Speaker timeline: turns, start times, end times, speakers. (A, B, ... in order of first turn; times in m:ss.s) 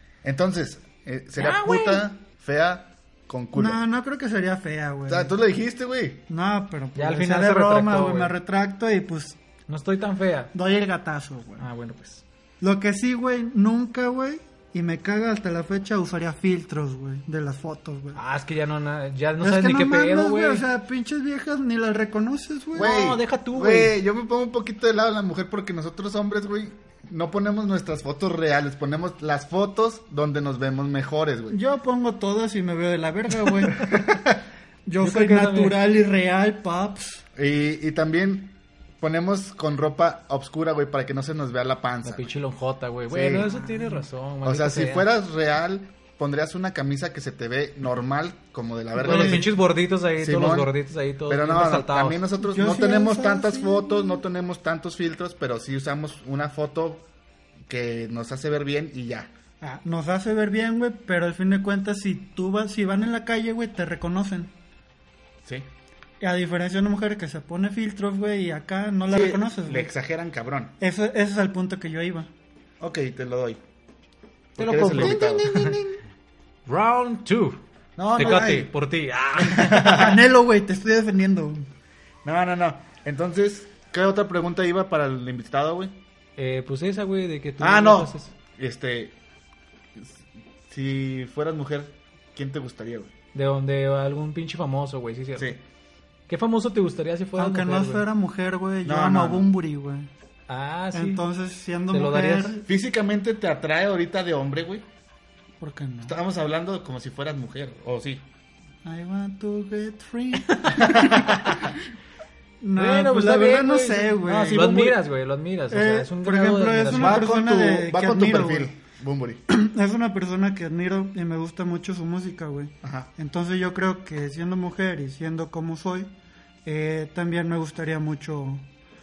0:00.2-0:03.8 A
0:01.4-0:02.0 B
0:03.6-0:05.3 C
0:05.1-0:06.2 A
0:06.3-0:09.4 C
0:07.0-0:08.3 B
0:09.7-0:10.5 B
0:10.5-0:11.6 C
0:11.6-0:12.2 B
0:12.6-0:18.2 C
0:18.2-0:20.6 B
0:19.4-0:22.9 C
0:22.7-0:31.6 A
0:22.7-0:23.9 B
0:31.5-0:34.0 C
0:33.9-0:34.3 A
0:34.8-0:37.2 C
0:35.0-0:35.8 B
0:37.4-0:42.3 A
0:42.0-0:45.1 B
0:43.1-0:43.5 A
0:43.4-0:44.0 C
0:44.4-0:49.5 A
0:49.0-0:52.2 B
0:49.0-0:49.4 C
0:50.2-0:50.7 A
0:51.3-0:57.0 A
0:52.4-0:54.2 C
0:57.7-0:59.3 A
0:59.6-1:04.5 C
1:06.2-1:09.9 C
1:09.1-1:10.7 A
1:10.8-1:12.3 C
1:12.8-1:13.6 A
1:14.6-1:15.5 A
1:14.6-1:15.8 B
1:14.9-1:16.0 C
1:16.7-1:17.6 B
1:18.0-1:18.6 A
1:18.1-1:20.1 B
1:18.2-1:18.6 C
1:19.5-1:20.1 A
1:19.6-1:21.6 C
1:22.2-1:25.9 A
1:26.4-1:28.3 B
1:27.6-1:29.1 A
1:30.0-1:33.1 A
1:33.3-1:35.6 B
1:36.3-1:38.0 B
1:37.4-1:40.1 C
1:38.8-1:39.4 A
1:40.5-1:41.2 B
1:40.9-1:42.7 C
1:41.9-1:42.6 B
1:42.6-1:44.8 A
1:45.6-1:46.1 C
1:46.0-1:48.2 A
1:48.8-1:51.6 C
1:50.5-1:51.0 B
1:50.9-1:51.4 A
1:52.6-1:55.0 C
1:52.8-1:57.2 B
1:55.7-1:58.7 C
1:56.9-1:59.4 A
1:59.5-2:06.1 C
2:02.8-2:03.1 A
2:06.6-2:08.6 C